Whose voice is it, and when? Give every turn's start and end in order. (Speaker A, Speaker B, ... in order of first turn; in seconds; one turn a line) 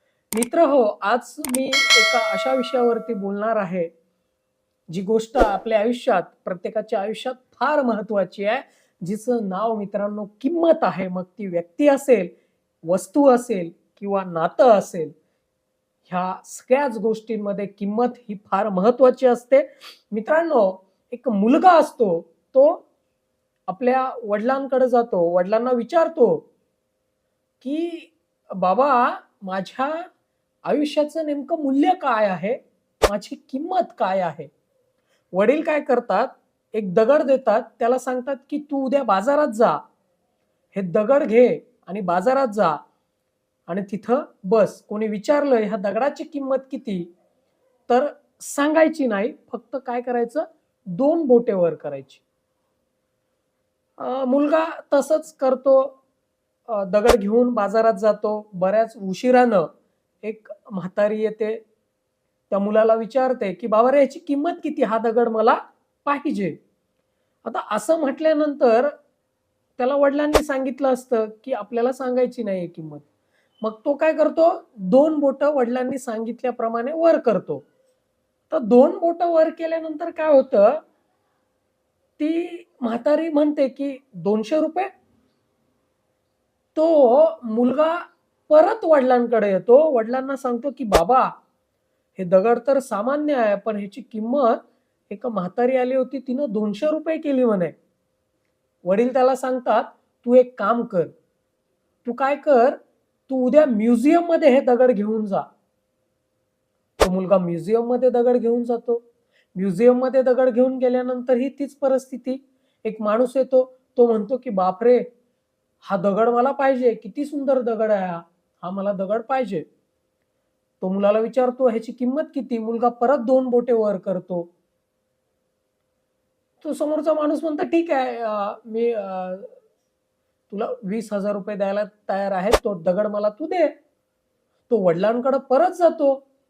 Speaker A: 0.3-3.9
Speaker A: 4.9-12.3
Speaker A: 12.9-15.2
Speaker A: 16.1-22.9
Speaker A: 23.7-26.5
Speaker A: 27.6-30.1
Speaker A: 30.7-34.5
Speaker A: 35.3-39.8
Speaker A: 40.7-42.8
Speaker A: 43.7-47.1
Speaker A: 47.9-52.2
Speaker A: 54.0-56.0
Speaker A: 56.7-59.7
Speaker A: 60.2-61.6
Speaker A: 62.5-66.6
Speaker A: 67.5-68.9
Speaker A: 69.8-73.0
Speaker A: 73.6-77.7
Speaker A: 78.5-80.8
Speaker A: 82.2-84.9
Speaker A: 86.8-91.3
Speaker A: 92.2-97.8
Speaker A: 98.8-101.1
Speaker A: 102.0-105.5
Speaker A: 107.0-109.0
Speaker A: 109.5-115.1
Speaker A: 115.8-119.7
Speaker A: 120.8-124.5
Speaker A: 126.6-129.5
Speaker A: 130.5-133.8
Speaker A: 134.7-136.2